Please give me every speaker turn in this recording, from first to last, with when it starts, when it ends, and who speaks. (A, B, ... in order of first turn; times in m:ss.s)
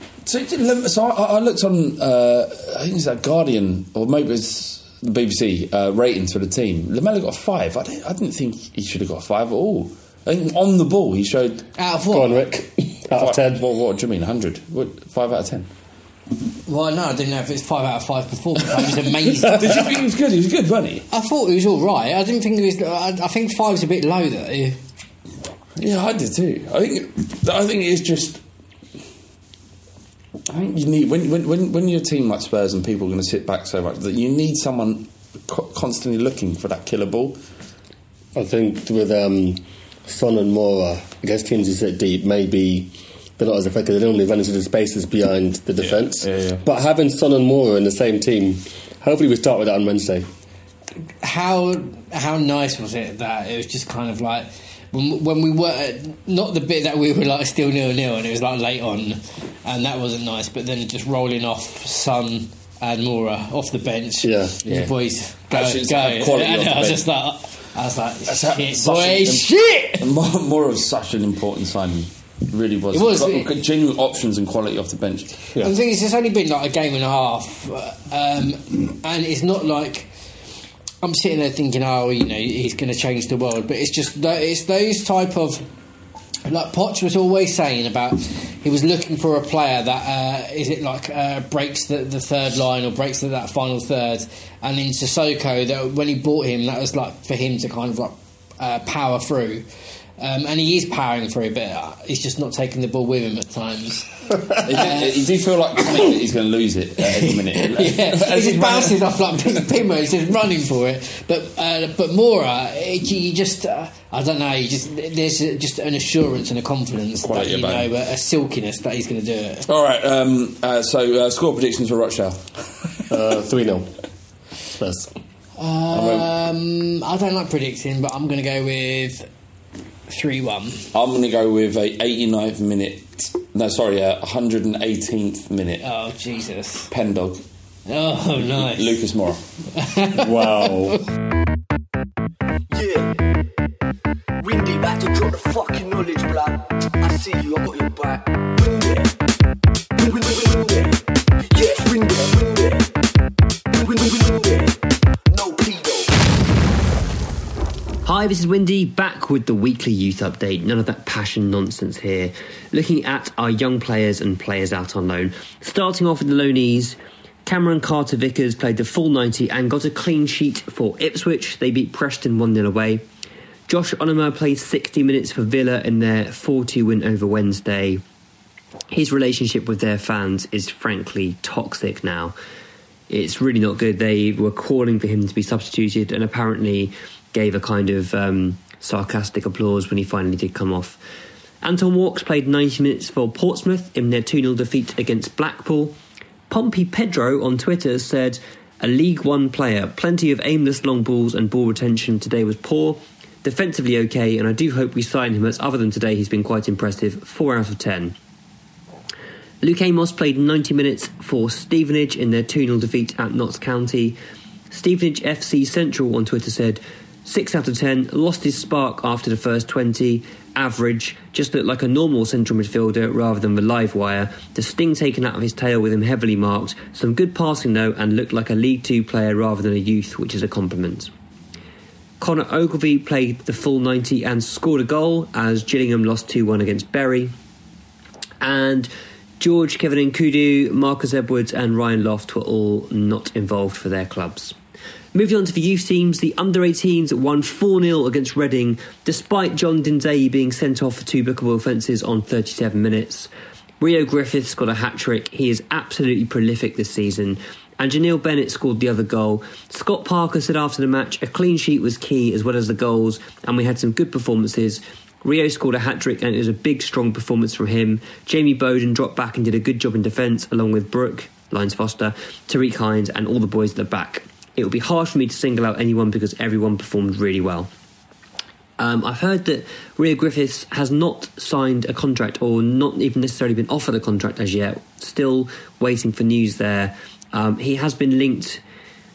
0:00.3-0:11.6 A
0:11.8-0:12.3 B
0:12.1-0:13.6 C
0:13.2-0:15.7 A
0:16.7-0:19.8 B
0:19.4-0:21.1 A
0:21.1-0:24.8 B
0:25.8-0:28.4 A
0:30.5-0:37.4 A
0:38.4-0:50.3 C
0:45.8-0:46.6 A
0:51.2-1:10.0 B
1:04.2-1:04.6 C
1:04.6-1:04.9 A
1:05.5-1:07.1 A
1:08.3-1:15.3 A
1:12.9-1:13.5 B
1:15.6-1:20.1 B
1:21.0-1:25.6 B
1:26.4-1:39.6 B
1:40.2-1:44.1 B
1:44.6-1:49.0 A
1:44.8-1:45.1 B
1:47.2-1:59.6 B
1:57.2-1:57.9 A
1:59.7-2:02.4 A
2:03.1-2:03.9 C
2:04.8-2:05.1 C
2:05.6-2:09.3 B
2:05.9-2:06.3 A
2:10.1-2:10.8 B
2:10.9-2:15.8 A
2:15.8-2:16.9 B
2:16.9-2:17.4 A
2:17.9-2:19.0 B
2:18.4-2:19.4 A
2:19.8-2:20.8 B
2:20.2-2:21.0 C
2:22.7-2:23.2 D
2:24.4-2:29.1 D
2:30.0-2:31.0 D
2:31.5-2:32.9 D
2:33.7-2:34.8 D
2:35.3-2:36.2 D
2:38.0-2:53.0 E
2:53.7-2:58.0 E
2:58.9-3:02.4 E
3:03.1-3:11.0 E
3:11.6-3:16.0 E
3:16.5-3:28.2 E
3:29.6-3:34.2 E
3:34.7-3:51.1 E
3:52.2-3:57.3 E
3:58.4-4:04.6 E
4:05.1-4:37.7 E
4:38.8-4:48.6 E